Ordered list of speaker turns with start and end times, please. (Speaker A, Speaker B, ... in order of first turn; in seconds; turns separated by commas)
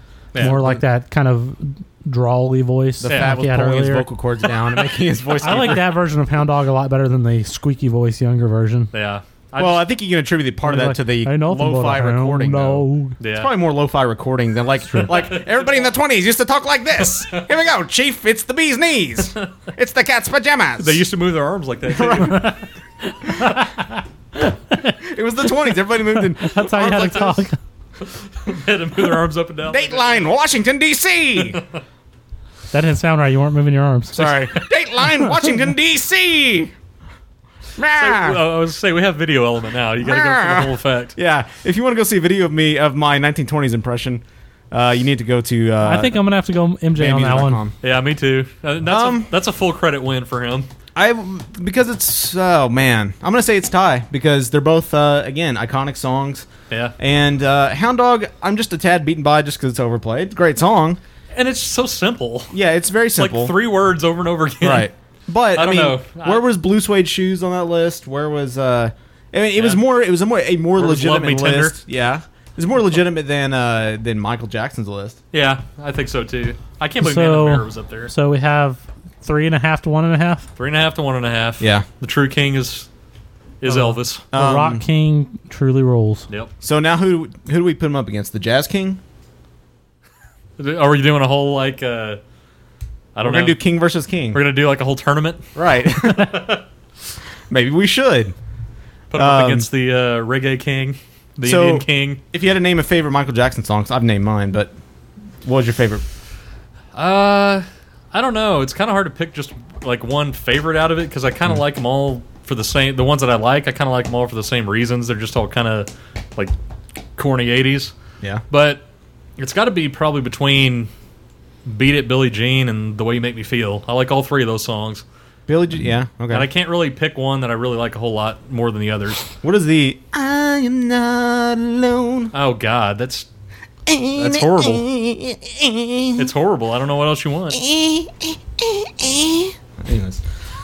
Speaker A: 0.3-0.6, Speaker B: 0.4-4.1, Speaker C: 0.4-0.8, Speaker C: 3.0-5.9, Speaker A: 5.4-5.8, Speaker B: 5.4-8.9, Speaker A: 8.9-9.8, Speaker C: 9.6-21.0, Speaker B: 10.6-13.1, Speaker A: 13.2-13.5, Speaker A: 15.0-15.9, Speaker A: 20.8-22.6, Speaker C: 21.9-22.5, Speaker B: 23.6-23.8, Speaker B: 24.4-24.9, Speaker C: 25.0-27.4, Speaker B: 26.1-27.6, Speaker A: 26.8-27.3, Speaker A: 28.4-30.3, Speaker C: 29.7-31.6, Speaker A: 31.4-31.8, Speaker B: 32.7-34.3, Speaker C: 34.1-36.7, Speaker C: 37.8-38.4, Speaker A: 37.9-41.1, Speaker C: 40.0-46.2, Speaker B: 45.8-47.6, Speaker C: 47.0-47.7, Speaker A: 47.8-50.7, Speaker C: 48.9-49.3, Speaker C: 50.9-56.5, Speaker C: 57.0-61.0, Speaker A: 61.3-62.5, Speaker C: 62.5-63.5, Speaker A: 63.1-64.9, Speaker C: 64.6-75.2, Speaker A: 65.5-66.5, Speaker A: 69.5-69.8, Speaker A: 70.8-71.8, Speaker A: 75.3-78.1, Speaker B: 77.0-80.5, Speaker A: 80.5-82.9, Speaker C: 81.6-81.8, Speaker A: 83.6-84.2, Speaker B: 83.7-86.2, Speaker C: 84.3-84.8, Speaker C: 86.6-89.0, Speaker A: 90.6-92.2, Speaker A: 93.1-93.6, Speaker C: 93.2-94.4, Speaker A: 94.3-95.5, Speaker C: 95.5-96.4, Speaker A: 96.1-96.6, Speaker C: 97.5-98.3, Speaker A: 99.1-102.2, Speaker C: 99.1-99.7, Speaker C: 101.4-104.7, Speaker C: 105.4-106.0, Speaker A: 106.9-116.5, Speaker A: 117.2-117.9, Speaker A: 118.5-118.8, Speaker A: 119.4-120.9, Speaker A: 121.7-125.0, Speaker C: 125.5-126.5, Speaker A: 126.3-129.3, Speaker C: 129.4-132.3, Speaker A: 132.3-133.3, Speaker C: 133.9-136.2, Speaker A: 134.1-134.8, Speaker A: 136.2-137.6, Speaker C: 137.5-140.2